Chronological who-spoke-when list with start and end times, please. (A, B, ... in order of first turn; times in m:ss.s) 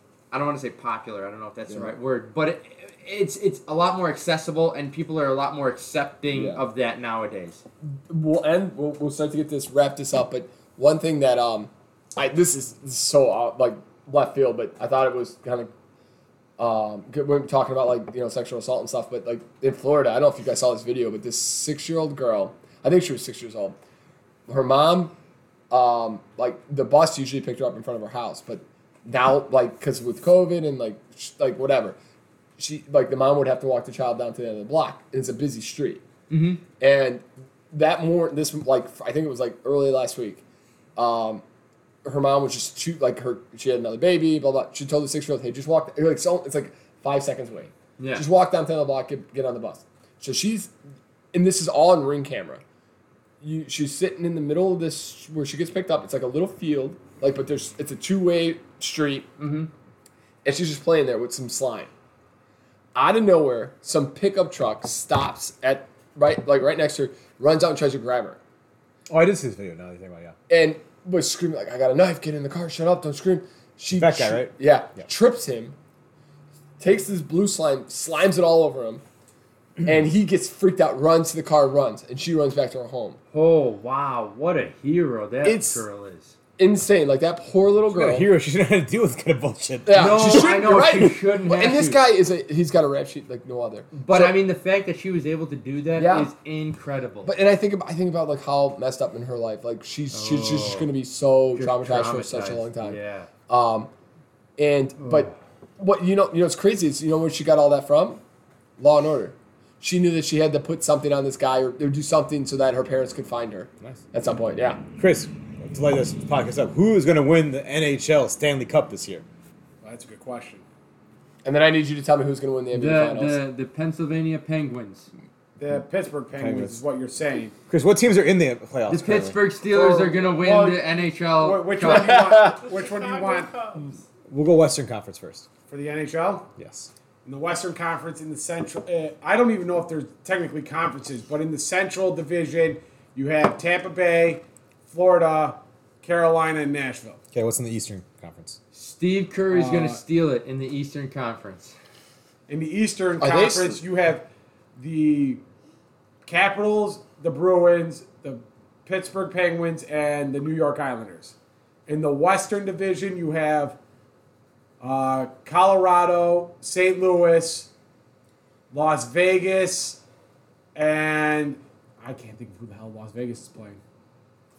0:00.3-0:07.6 A
0:06.3-0:06.6 B
0:08.1-0:15.7 B
0:16.6-0:23.8 B
0:24.5-0:25.1 B
0:25.7-0:32.0 B
0:32.6-0:36.0 B
0:36.3-0:36.6 A
0:36.8-0:40.4 B
0:41.0-0:41.4 B
0:42.0-0:50.7 B
0:48.0-0:48.2 A
0:51.3-0:52.6 B
0:53.4-0:59.3 B
0:59.4-0:59.7 A
1:00.4-1:01.9 B
1:03.0-1:08.4 B
1:09.1-1:10.4 C
1:10.5-1:15.8 B
1:14.0-1:14.5 C
1:16.8-1:19.0 B
1:19.8-1:23.2 B
1:23.3-1:26.4 A
1:25.4-1:25.8 B
1:26.6-1:28.3 B
1:27.9-1:30.5 C
1:29.9-1:34.3 B
1:29.9-1:32.0 A
1:34.0-1:37.3 A
1:36.0-1:36.3 B
1:37.2-1:43.9 B
1:40.1-1:40.9 A
1:41.6-1:43.3 A
1:44.6-1:48.2 B
1:45.0-1:45.3 A
1:48.8-1:54.8 B
1:55.0-1:59.2 C
1:59.8-2:00.6 D
2:01.4-2:03.4 B
2:02.7-2:05.1 A
2:05.6-2:07.6 D
2:06.4-2:06.8 C
2:07.7-2:09.4 C
2:08.9-2:12.2 A
2:09.7-2:13.7 D
2:11.8-2:12.6 B
2:14.3-2:15.5 C
2:15.7-2:16.5 D
2:16.6-2:16.9 C
2:17.2-2:27.2 D
2:27.3-2:28.6 C
2:28.7-2:31.8 A
2:29.5-2:30.0 D
2:32.5-2:34.2 D
2:33.2-2:33.8 B
2:34.8-2:35.4 D
2:36.2-2:41.4 D
2:41.9-2:43.8 D
2:44.8-2:47.7 D
2:48.7-2:50.0 D
2:50.8-2:53.8 D